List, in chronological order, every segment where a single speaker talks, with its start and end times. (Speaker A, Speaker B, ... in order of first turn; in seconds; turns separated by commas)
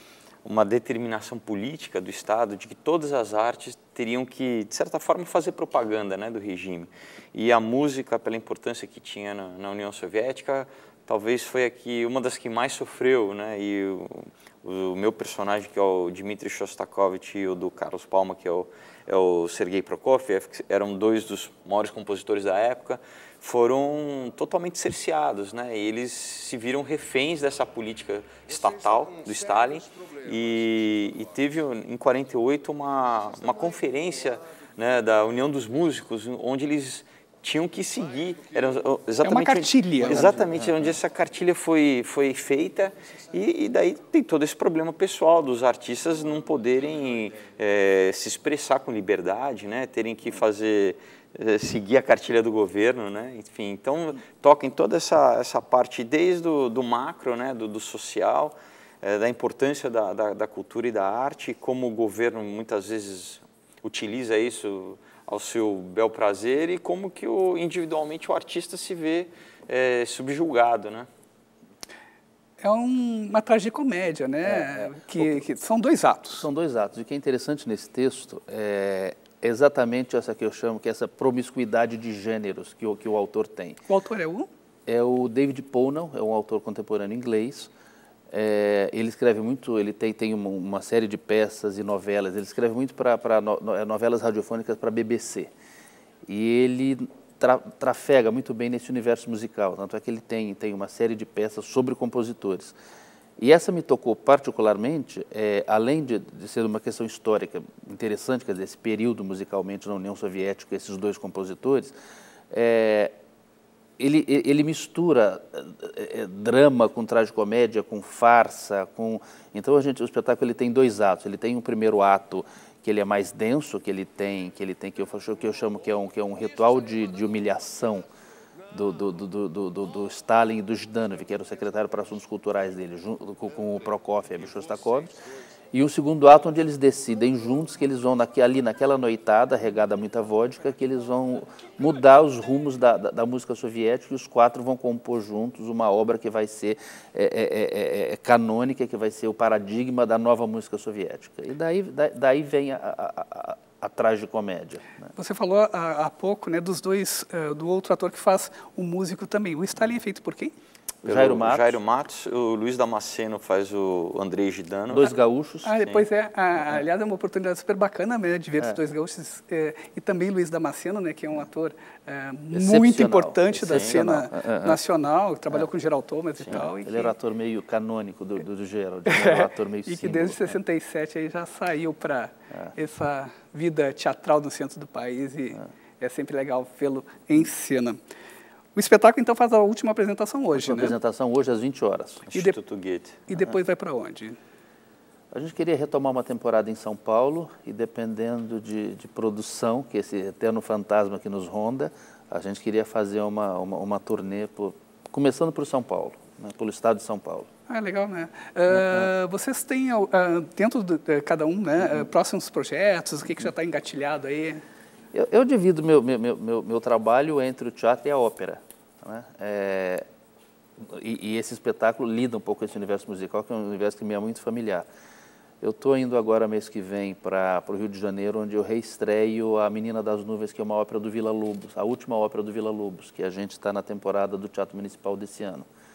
Speaker A: 0.4-71.1, Speaker B: 39.2-40.4, Speaker B: 72.6-76.5, Speaker C: 74.6-75.4, Speaker C: 76.4-83.8, Speaker B: 83.9-84.5, Speaker C: 84.9-87.7, Speaker C: 88.3-95.5, Speaker C: 96.3-102.7, Speaker C: 103.4-111.9, Speaker C: 112.5-113.1, Speaker C: 114.0-128.1, Speaker C: 128.7-135.1, Speaker C: 135.7-155.1, Speaker B: 155.1-160.5, Speaker A: 161.0-165.1, Speaker C: 161.1-161.7, Speaker C: 165.1-165.7, Speaker B: 165.6-177.1, Speaker A: 165.8-166.1, Speaker C: 172.5-173.6, Speaker A: 173.6-174.2, Speaker C: 174.4-174.8, Speaker A: 176.4-176.7, Speaker C: 176.8-180.4, Speaker B: 179.0-188.0, Speaker B: 188.7-190.9, Speaker C: 190.6-192.2, Speaker A: 192.3-193.2, Speaker B: 193.3-194.4, Speaker C: 195.3-207.5, Speaker B: 207.7-214.6, Speaker C: 215.1-220.1, Speaker C: 220.8-224.9, Speaker C: 225.6-235.7